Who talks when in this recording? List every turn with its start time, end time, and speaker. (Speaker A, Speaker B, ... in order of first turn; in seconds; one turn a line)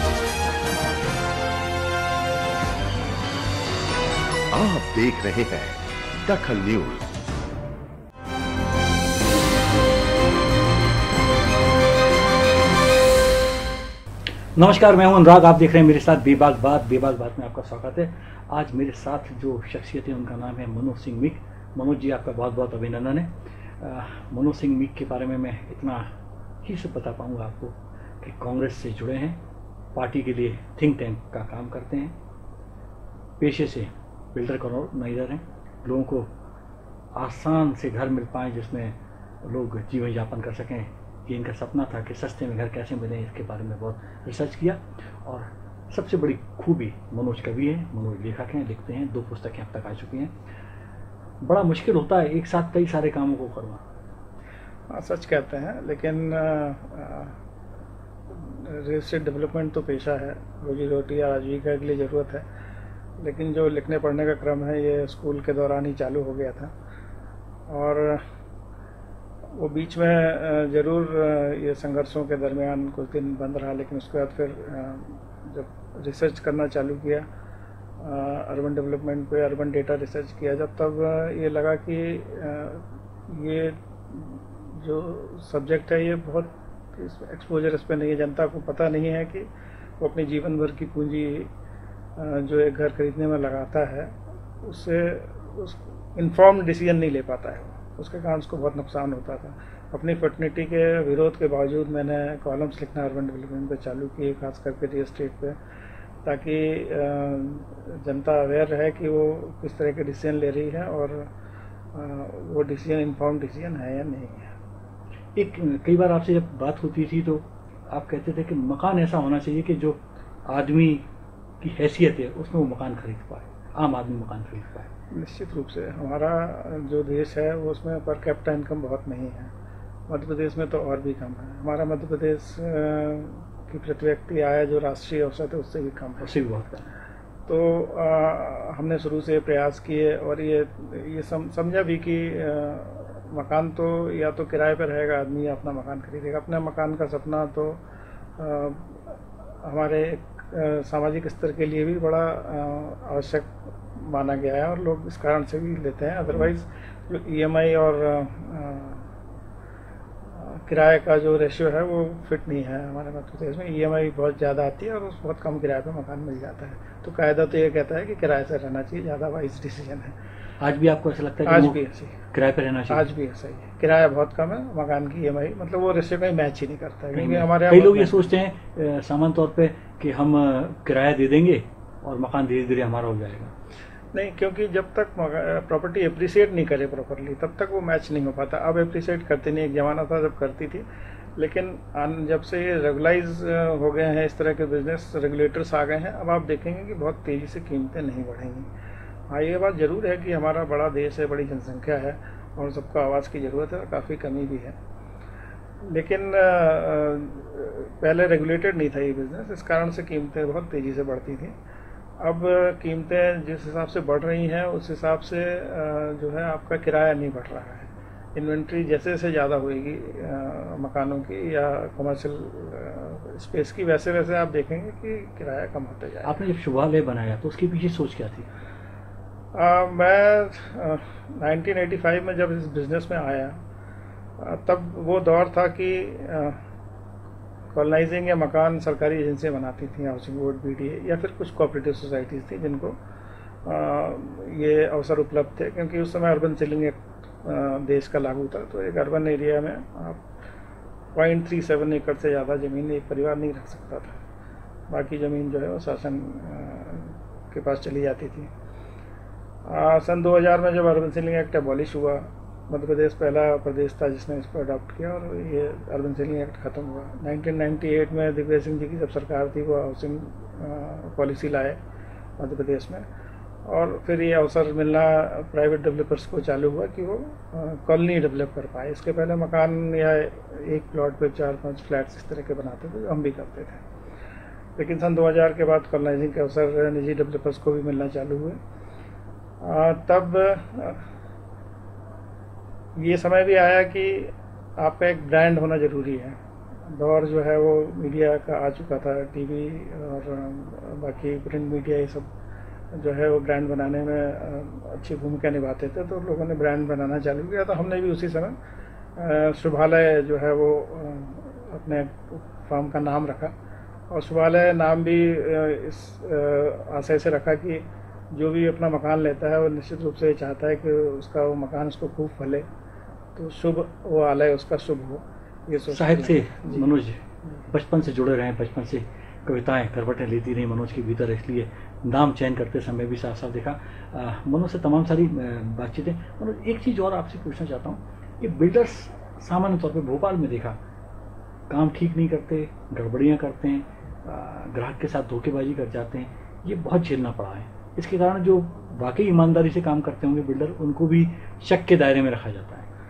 Speaker A: 4.5-7.1
Speaker B: 14.6-26.1
Speaker B: 26.6-29.4
Speaker B: 29.9-32.1
Speaker B: 33.4-36.3
Speaker B: 37.2-50.3
Speaker B: 51.4-53.8
Speaker C: 54.9-57.4
Speaker C: 58.3-62.5
Speaker C: 63.2-66.7
Speaker C: 67.7-68.2
Speaker C: 69.6-77.2
Speaker C: 78.0-89.5
Speaker C: 90.0-91.5
Speaker C: 92.2-105.6
Speaker C: 106.2-111.3
Speaker C: 111.9-114.5
Speaker B: 115.3-121.0
Speaker B: 121.6-124.9
Speaker C: 125.1-129.5
Speaker C: 130.1-136.4
Speaker B: 136.2-136.9
Speaker C: 137.5-147.8
Speaker C: 148.4-159.1
Speaker C: 160.4-170.2
Speaker B: 170.6-171.8
Speaker C: 171.5-172.2
Speaker B: 172.3-173.1
Speaker C: 172.9-178.3
Speaker B: 177.1-183.5
Speaker C: 184.1-190.8
Speaker C: 191.4-198.7
Speaker C: 199.3-204.8
Speaker C: 205.8-211.5
Speaker C: 212.2-226.3
Speaker B: 226.2-228.5
Speaker C: 229.6-233.6
Speaker C: 234.4-236.6
Speaker C: 237.7-243.0
Speaker C: 243.7-250.2
Speaker C: 251.2-254.1
Speaker C: 254.9-258.5
Speaker C: 259.7-271.8
Speaker C: 272.4-273.0
Speaker C: 273.6-283.8
Speaker C: 284.8-288.6
Speaker C: 289.6-291.1
Speaker C: 293.0-302.3
Speaker C: 302.9-308.6
Speaker C: 309.2-313.5
Speaker C: 314.1-322.6
Speaker C: 323.4-326.9
Speaker B: 325.9-340.8
Speaker B: 341.7-352.9